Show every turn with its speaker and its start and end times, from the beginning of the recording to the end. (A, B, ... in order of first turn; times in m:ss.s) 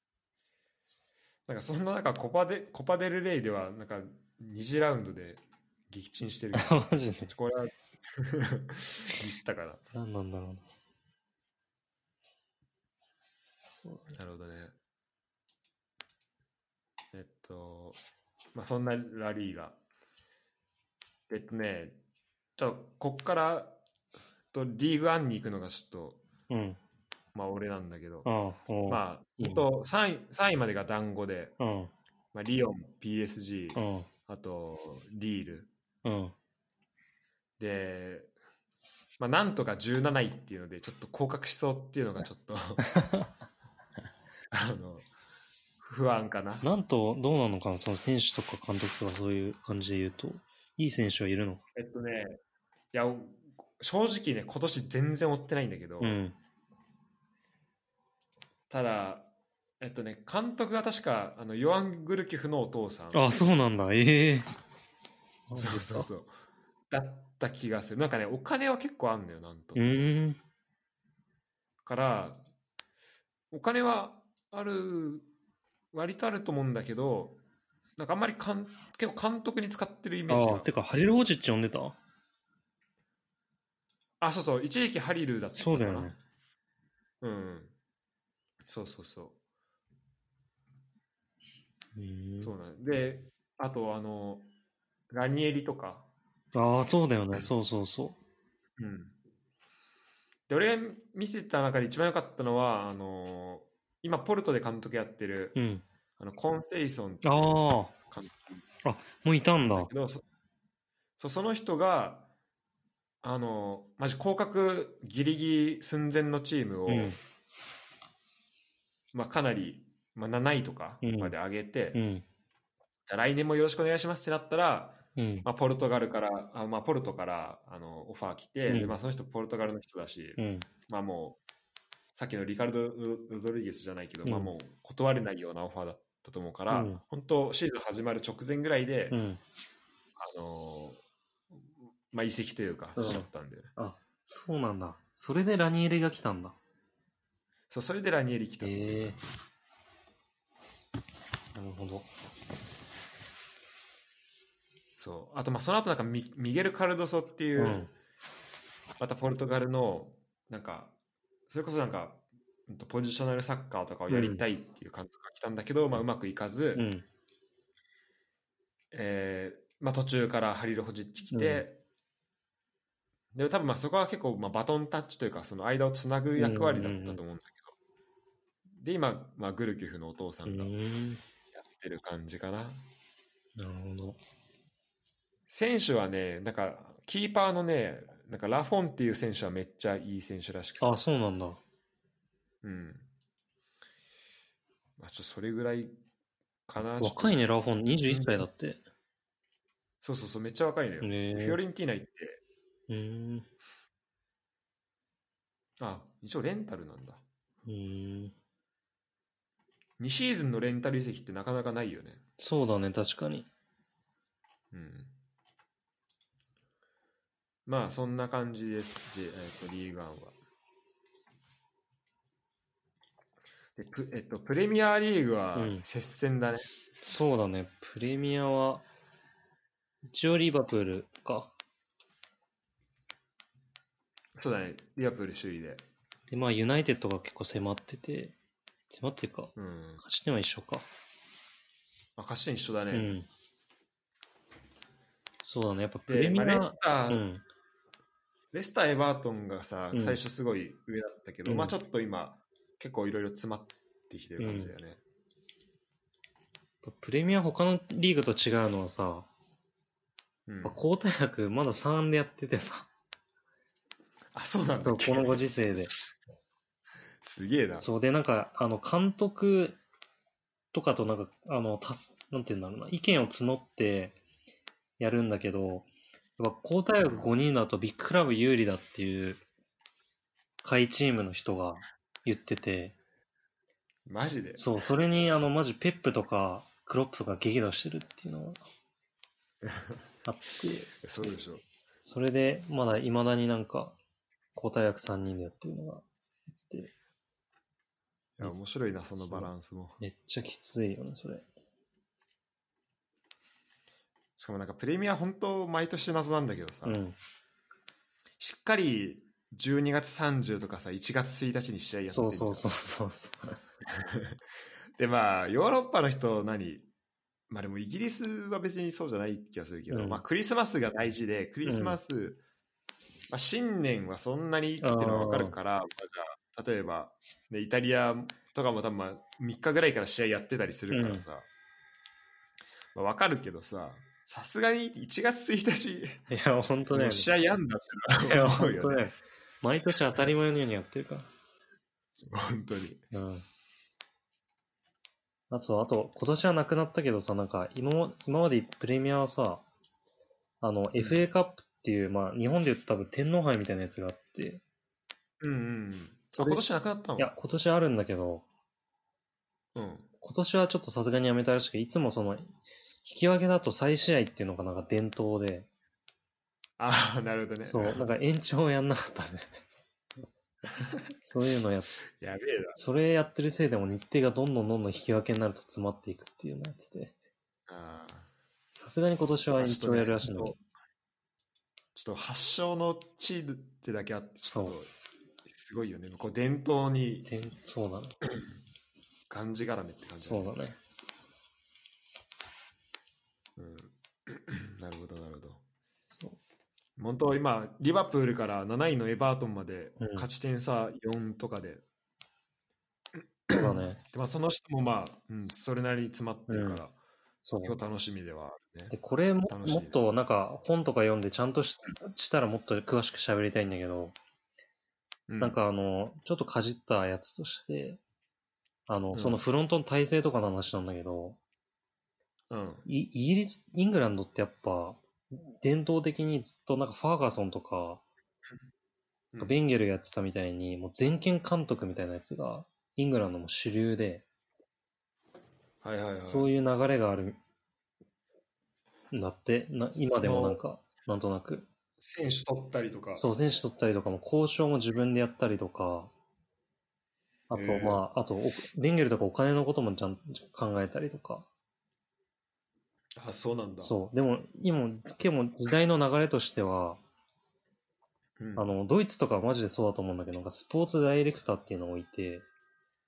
0:01.5-0:09.8 A
0:06.6-0:07.3 B
0:09.9-0:10.6 B
0:13.6-0:14.2 B
0:14.1-0:14.7 A
0:17.1-0:18.0 A
0:18.5-0:19.8 A
0:21.3-0:22.0 A
0:22.6-0:23.8 A
0:24.5-0:26.2 A
0:26.5-0:26.8 B
0:27.3-0:28.3 A
0:28.2-0:29.6 B
0:28.9-0:31.6 A
0:31.6-0:31.9 B
0:32.3-0:35.7 A
0:33.7-0:34.1 B
0:36.0-0:36.3 B
0:37.6-0:38.3 A
0:39.2-0:42.8 A
0:43.0-0:43.3 B
0:44.5-0:45.0 A
0:45.8-0:46.7 A
0:46.6-0:51.6 B
0:51.7-0:52.4 A
0:52.9-0:56.2 A
0:56.0-0:56.3 B
0:58.7-0:59.3 A
0:59.8-1:03.2 A
1:03.1-1:04.5 B
1:05.5-1:06.1 B
1:05.6-1:06.3 A
1:06.9-1:10.0 A
1:09.7-1:10.4 B
1:11.8-1:12.4 A
1:13.5-1:15.3 A
1:15.9-1:17.4 A
1:18.0-1:21.2 A
1:20.3-1:22.0 B
1:24.2-1:26.1 A
1:25.6-1:26.2 B
1:27.2-1:27.7 A
1:28.7-1:29.4 A
1:32.0-1:32.5 B
1:32.4-1:34.5 A
1:35.1-1:36.1 A
1:36.5-1:38.2 B
1:38.8-1:39.1 A
1:40.5-1:45.6 A
1:45.6-1:45.8 B
1:46.2-1:48.6 A
1:47.2-1:47.9 B
1:48.8-1:49.9 B
1:49.6-1:50.2 A
1:51.2-1:52.3 A
1:53.2-1:57.2 A
1:56.9-1:57.2 B
1:59.1-2:02.0 A
2:01.0-2:01.3 B
2:01.9-2:02.2 B
2:03.0-2:11.4 A
2:05.2-2:05.4 B
2:08.7-2:09.0 B
2:10.4-2:10.7 B
2:12.1-2:19.2 A
2:14.2-2:14.5 B
2:16.7-2:17.0 B
2:19.1-2:19.4 B
2:20.2-2:21.0 A
2:22.1-2:23.7 A
2:23.0-2:26.6 B
2:27.7-2:29.2 A
2:28.6-2:29.2 B
2:31.5-2:32.1 B
2:35.0-2:37.9 A
2:37.6-2:37.9 B
2:39.0-2:40.9 A
2:41.5-2:46.9 A
2:44.1-2:44.4 B
2:46.7-2:47.0 B
2:48.9-2:51.8 A
2:51.3-2:51.6 B
2:53.3-2:57.7 A
2:56.4-2:57.2 B
2:58.8-3:00.7 A
3:00.4-3:01.2 B
3:01.5-3:02.8 A
3:03.6-3:04.2 B
3:05.5-3:11.0 A
3:10.8-3:11.6 B
3:12.6-3:13.1 A
3:15.0-3:16.0 A
3:16.7-3:17.4 A
3:17.0-3:18.8 B
3:18.0-3:18.5 A
3:20.0-3:22.4 A
3:21.0-3:21.6 B
3:22.9-3:23.5 B
3:25.8-3:27.2 A
3:27.6-3:28.3 B
3:30.0-3:32.2 A
3:32.4-3:33.5 B
3:34.7-3:35.1 A
3:37.6-3:40.4 A
3:43.8-3:46.7 A
3:45.6-3:45.8 B
3:47.0-3:48.8 B
3:50.0-3:51.5 B
3:54.4-3:55.8 A
3:56.3-3:58.3 B
3:58.9-4:00.8 B
3:59.6-4:00.0 A
4:02.2-4:03.1 A
4:02.9-4:03.2 B
4:05.4-4:07.4 B
4:06.1-4:07.2 A
4:08.5-4:15.0 A
4:09.9-4:10.2 B
4:11.4-4:11.7 B
4:14.4-4:14.7 B
4:16.8-4:19.3 B
4:20.5-4:20.8 A
4:20.6-4:22.9 B
4:24.3-4:25.4 A
4:24.8-4:25.9 B
4:27.2-4:27.9 A
4:27.8-4:29.8 B
4:30.7-4:34.2 B
4:35.0-4:39.4 B
4:37.0-4:37.3 A
4:40.6-4:42.9 B
4:44.0-4:44.7 A
4:44.6-4:48.6 B
4:49.6-4:50.0 A
4:50.2-4:51.1 B
4:51.0-4:51.6 A
4:52.0-4:54.0 B
4:54.5-4:56.0 B
4:56.6-4:56.9 B
4:58.4-5:00.0 A
4:59.2-5:01.4 B
5:04.4-5:07.0 A
5:06.8-5:07.2 B
5:08.4-5:12.7 A
5:12.1-5:13.6 B
5:13.9-5:14.3 A
5:15.0-5:16.9 A
5:17.5-5:22.4 A
5:19.9-5:20.2 B
5:21.6-5:22.0 B
5:23.3-5:31.5 A
5:24.8-5:25.6 B
5:30.9-5:31.2 B
5:32.9-5:36.2 A
5:36.3-5:37.3 B
5:36.9-5:39.1 A
5:38.2-5:41.3 B
5:42.3-5:43.0 A
5:43.1-5:43.4 B
5:45.5-5:49.6 B
5:50.6-5:54.6 B
5:51.0-5:51.3 A
5:55.4-5:57.3 A
5:56.3-5:56.6 B
5:57.2-5:58.4 B
5:59.7-6:00.1 A
6:00.2-6:02.5 B
6:03.0-6:05.7 B
6:06.8-6:08.0 A
6:07.6-6:09.5 B
6:10.7-6:11.0 A
6:11.2-6:11.9 B
6:12.2-6:12.8 A
6:12.7-6:17.1 B
6:17.7-6:18.3 A
6:18.7-6:20.6 B
6:19.6-6:20.6 A
6:21.9-6:24.9 A
6:24.5-6:24.8 B
6:25.4-6:27.3 A
6:27.2-6:28.2 B
6:29.3-6:30.6 A
6:30.2-6:30.8 B
6:33.6-6:35.6 A
6:36.1-6:36.4 B
6:37.0-6:41.8 A
6:40.0-6:40.3 B
6:43.5-6:47.0 A
6:43.5-6:44.0 B
6:46.5-6:46.8 B
6:47.4-6:47.8 B
6:47.6-6:48.9 A
6:48.9-6:54.1 B
6:49.4-6:50.0 A
6:55.3-6:55.6 A
6:55.4-6:58.0 B
6:58.9-7:01.4 B
6:59.1-6:59.4 A
7:02.5-7:02.8 A
7:02.8-7:08.0 B
7:09.3-7:09.6 A
7:09.4-7:14.2 B
7:15.8-7:16.5 A
7:16.2-7:17.4 B
7:19.1-7:21.6 B
7:20.2-7:20.6 A
7:22.0-7:23.3 A
7:23.1-7:26.1 B
7:27.5-7:31.5 B
7:27.5-7:28.0 A
7:33.2-7:34.0 A
7:33.8-7:37.0 B
7:38.4-7:38.7 A
7:38.6-7:42.4 B